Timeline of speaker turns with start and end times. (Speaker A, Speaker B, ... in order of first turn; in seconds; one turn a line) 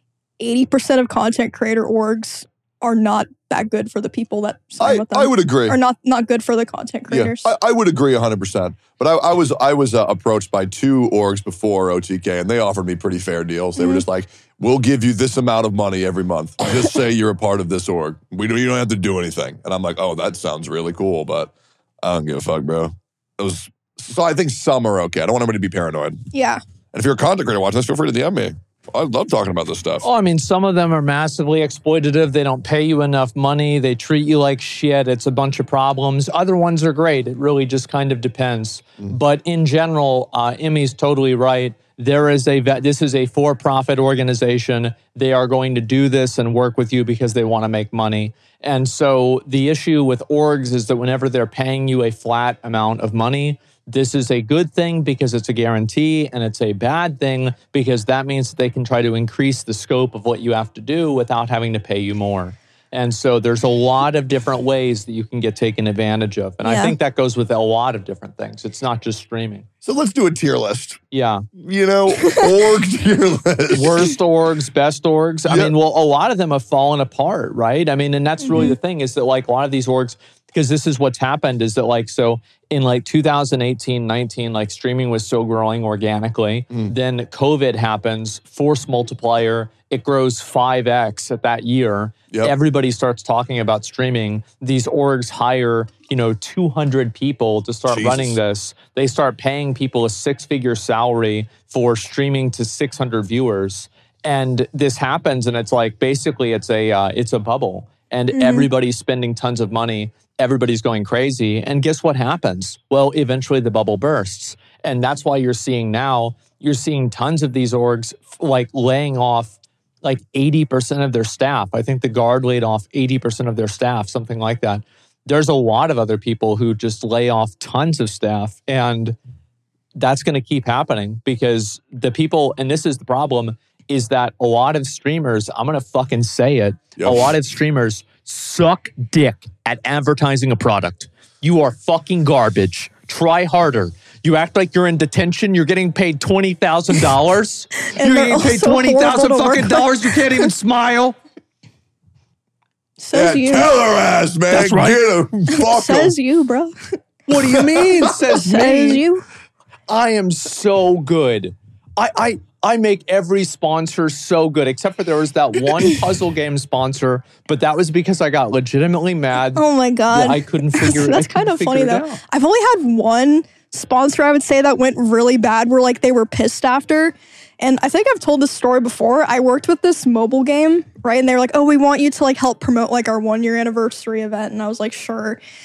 Speaker A: 0.4-7.5
Speaker B: 4.8-5.8
Speaker B: 7.1-26.2
Speaker A: 13.8-14.0
Speaker A: 26.3-26.6
Speaker B: 26.9-30.1
Speaker C: 30.0-69.7
Speaker A: 66.6-66.9
Speaker B: 69.8-71.0
Speaker C: 71.1-71.5
Speaker B: 71.5-74.2
Speaker A: 72.2-72.5
Speaker C: 73.7-129.2
Speaker B: 75.5-75.7
Speaker A: 78.5-78.8
Speaker B: 97.9-98.4
Speaker A: 108.3-108.7
Speaker C: 130.0-151.2
Speaker B: 137.0-137.3
Speaker A: 147.9-150.5
Speaker A: 153.0-153.7
Speaker B: 153.1-156.2
Speaker C: 154.5-155.0
Speaker A: 155.5-156.7
Speaker C: 157.3-159.0
Speaker B: 157.6-157.9
Speaker A: 158.3-159.3
Speaker C: 159.9-172.2
Speaker A: 169.5-185.4